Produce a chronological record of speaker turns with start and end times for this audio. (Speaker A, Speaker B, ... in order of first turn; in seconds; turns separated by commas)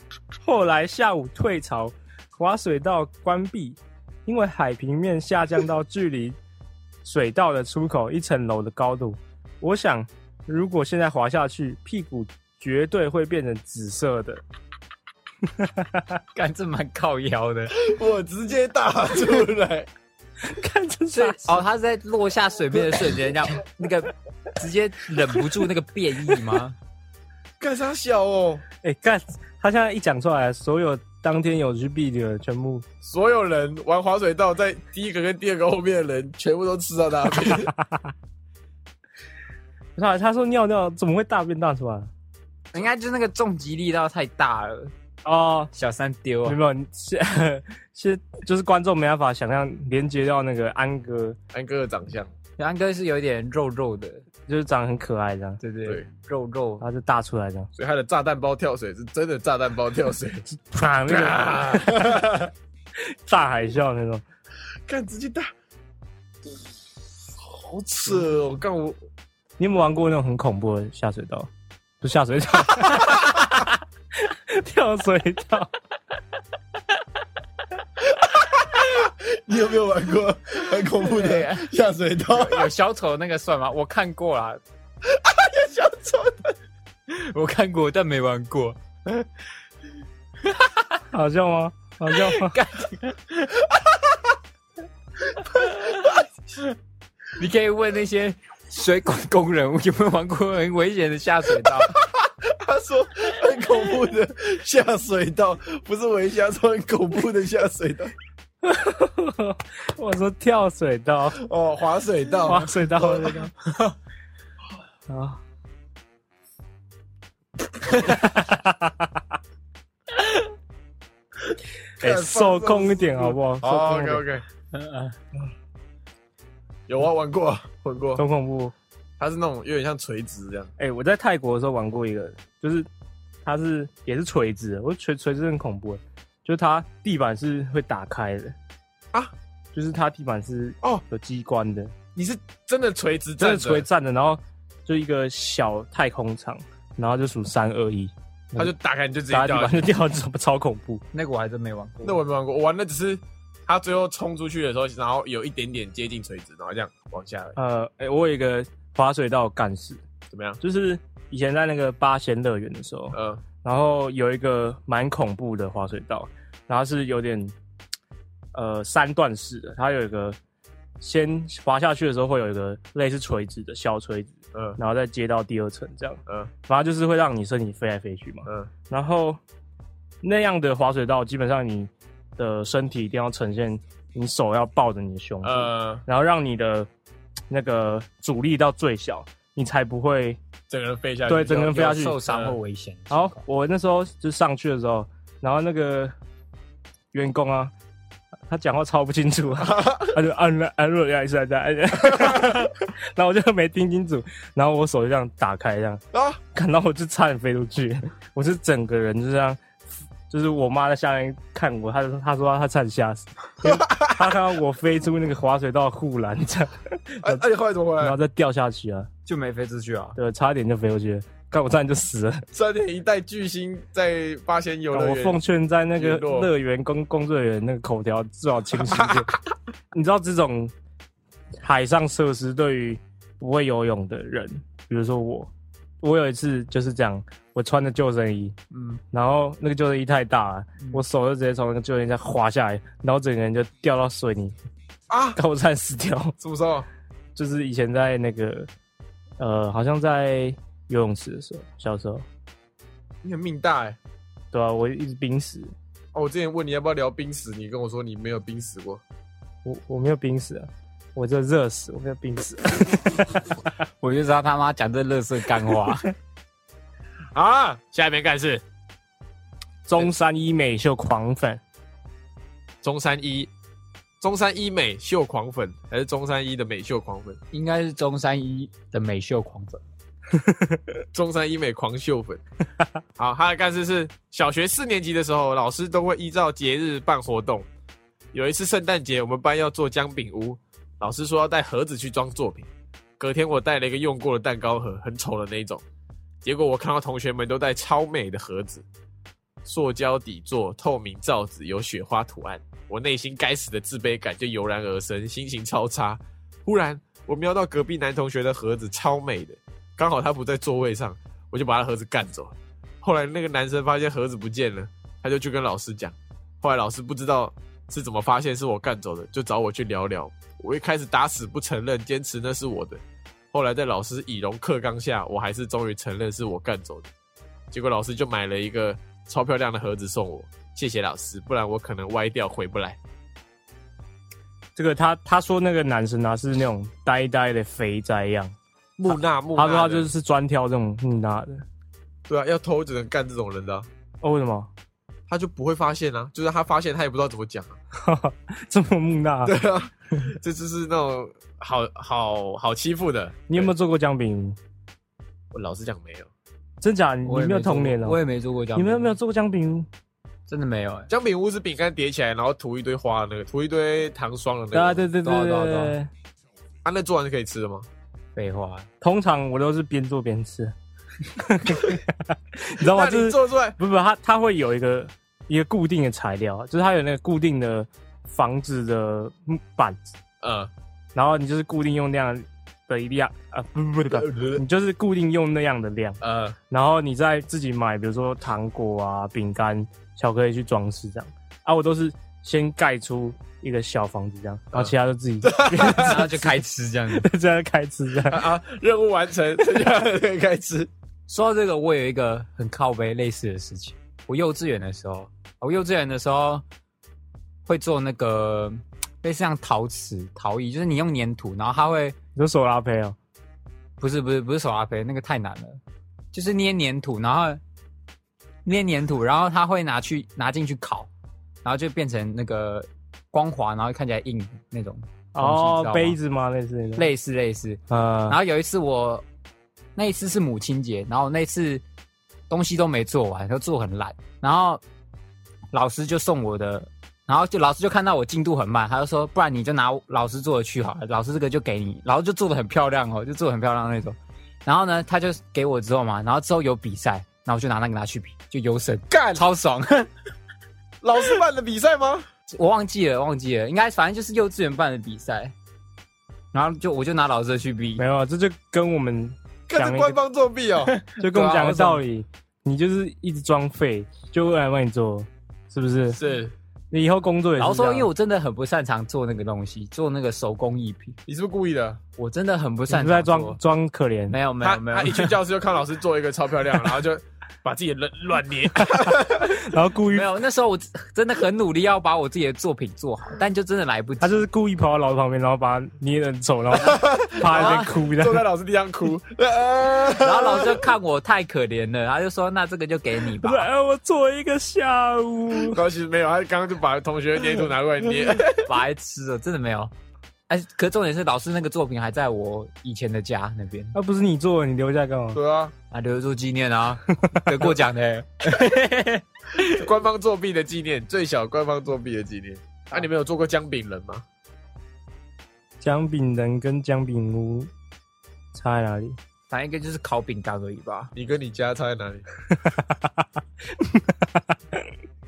Speaker A: 0.4-6.4, Speaker A: 7.0-14.4, Speaker A: 15.6-16.2, Speaker B: 16.4-17.9, Speaker C: 17.8-19.9, Speaker A: 20.4-21.6, Speaker B: 21.1-26.8, Speaker C: 27.6-28.6, Speaker A: 28.8-32.9, Speaker C: 33.0-37.7, Speaker A: 37.7-38.1, Speaker A: 40.0-42.1, Speaker B: 42.7-44.9, Speaker A: 45.2-45.7, Speaker B: 45.7-46.6, Speaker A: 46.5-51.4, Speaker C: 51.5-52.3, Speaker B: 52.6-54.3, Speaker A: 54.5-55.6, Speaker B: 55.6-56.8, Speaker A: 56.8-57.7, Speaker C: 57.8-60.5, Speaker A: 60.6-62.0, Speaker C: 61.1-62.5, Speaker A: 63.2-64.2, Speaker C: 64.9-65.5, Speaker C: 67.4-69.0, Speaker A: 69.6-71.5, Speaker A: 72.0-73.7, Speaker A: 74.2-75.7, Speaker C: 78.0-82.7, Speaker B: 80.9-81.7, Speaker B: 82.3-84.6, Speaker C: 85.1-86.5, Speaker B: 87.1-88.8, Speaker B: 90.5-90.9, Speaker A: 91.1-92.5, Speaker B: 92.1-93.6, Speaker B: 95.7-96.0, Speaker C: 95.9-96.2, Speaker B: 97.4-102.0, Speaker C: 101.9-108.1, Speaker A: 108.6-111.4, Speaker C: 111.4-113.5, Speaker A: 112.5-113.5, Speaker A: 115.1-115.4, Speaker A: 118.0-119.1, Speaker A: 122.0-124.2, Speaker C: 122.0-124.4, Speaker B: 124.7-125.2, Speaker C: 126.9-128.2, Speaker A: 128.2-128.7, Speaker C: 129.2-130.7, Speaker A: 130.8-132.9, Speaker A: 133.4-138.6, Speaker A: 139.7-141.9, Speaker C: 142.2-143.9, Speaker A: 143.4-148.7, Speaker C: 148.6-149.9, Speaker A: 149.3-151.0, Speaker B: 151.1-152.2, Speaker C: 152.0-157.6, Speaker A: 157.6-160.0, Speaker C: 160.3-160.6, Speaker A: 160.6-167.5, Speaker C: 163.1-163.4, Speaker A: 168.5-170.4, Speaker A: 171.0-179.4, Speaker A: 180.2-186.9, Speaker C: 185.4-186.0, Speaker A: 187.5-190.4, Speaker C: 190.7-192.6, Speaker A: 191.3-192.2, Speaker B: 191.7-193.4, Speaker A: 193.1-196.1, Speaker A: 197.1-197.7, Speaker A: 198.5-206.0, Speaker C: 199.6-200.2, Speaker C: 202.1-202.6, Speaker C: 206.1-206.4, Speaker A: 206.5-209.6, Speaker A: 210.3-217.4, Speaker C: 213.6-214.3, Speaker C: 217.2-218.2, Speaker A: 218.0-219.1, Speaker B: 219.3-220.2, Speaker A: 220.2-222.4, Speaker C: 222.5-225.4, Speaker A: 224.9-229.3, Speaker C: 226.0-226.5, Speaker C: 228.8-229.3, Speaker A: 229.9-230.7, Speaker A: 231.6-235.5, Speaker A: 236.0-238.6, Speaker B: 238.7-239.0, Speaker A: 239.1-244.6, Speaker C: 245.1-245.4, Speaker A: 245.4-246.3, Speaker C: 246.4-246.9, Speaker A: 247.4-248.7, Speaker A: 249.4-252.2, Speaker C: 253.2-254.0, Speaker A: 254.5-255.7, Speaker C: 256.1-259.0, Speaker A: 259.6-263.7, Speaker B: 264.0-266.1, Speaker C: 267.3-268.6, Speaker A: 269.9-271.6, Speaker C: 272.8-273.5, Speaker C: 274.2-277.4, Speaker B: 277.5-279.8, Speaker A: 280.3-280.8, Speaker C: 281.1-282.4, Speaker C: 283.2-287.7, Speaker C: 288.3-292.7, Speaker C: 293.2-295.8, Speaker C: 296.4-298.9, Speaker C: 299.6-323.0, Speaker C: 323.5-327.1, Speaker C: 327.7-333.0, Speaker A: 334.8-338.6, Speaker C: 339.0-340.1, Speaker A: 339.1-341.6, Speaker C: 342.3-343.9, Speaker A: 344.2-344.7, Speaker C: 345.3-347.8, Speaker A: 348.0-349.6, Speaker C: 349.5-353.7, Speaker A: 353.5-354.6, Speaker C: 355.5-356.3, Speaker A: 356.8-358.2, Speaker B: 357.2-359.2, Speaker A: 358.8-359.9, Speaker B: 360.5-361.1, Speaker C: 361.1-365.1, Speaker A: 364.7-366.1, Speaker B: 365.2-365.9, Speaker C: 366.9-367.9, Speaker B: 368.4-368.9, Speaker A: 369.0-370.7, Speaker A: 371.3-380.0, Speaker C: 372.8-373.8, Speaker C: 380.4-380.7, Speaker A: 381.1-386.2, Speaker C: 384.1-384.6, Speaker C: 386.2-386.6, Speaker A: 386.7-396.6, Speaker C: 394.7-396.2, Speaker B: 395.9-397.3, Speaker A: 397.1-398.5, Speaker C: 398.3-400.9, Speaker B: 401.3-406.6, Speaker B: 407.7-412.2, Speaker A: 412.4-413.2, Speaker B: 414.0-415.8, Speaker B: 416.3-417.6, Speaker B: 418.6-421.1, Speaker B: 421.6-426.2, Speaker A: 425.4-427.1, Speaker B: 427.0-429.2, Speaker A: 427.9-428.4, Speaker B: 429.9-431.8, Speaker B: 432.5-434.8, Speaker B: 435.7-450.1, Speaker C: 449.1-449.4, Speaker C: 451.0-452.3, Speaker B: 452.5-455.5, Speaker B: 456.5-458.0, Speaker A: 458.0-460.2, Speaker C: 459.7-460.9, Speaker B: 460.9-462.0, Speaker A: 461.2-466.2, Speaker C: 466.1-466.5, Speaker A: 466.9-468.1, Speaker B: 467.6-471.2, Speaker C: 471.3-472.0, Speaker B: 472.2-473.6, Speaker A: 472.9-474.4, Speaker B: 474.3-475.4, Speaker C: 474.6-479.7, Speaker A: 478.8-480.3, Speaker B: 480.1-484.4, Speaker A: 484.2-488.5, Speaker C: 486.8-490.9, Speaker B: 487.5-487.9, Speaker B: 490.2-493.7, Speaker A: 493.4-495.8, Speaker C: 495.6-498.7, Speaker B: 498.6-499.9, Speaker B: 500.5-503.9, Speaker A: 503.9-505.4, Speaker C: 505.3-505.7, Speaker B: 505.9-509.9, Speaker A: 507.3-507.7, Speaker C: 509.6-514.2, Speaker A: 515.8-517.7, Speaker A: 518.5-519.2, Speaker B: 519.5-521.1, Speaker C: 521.1-522.2, Speaker A: 522.7-524.9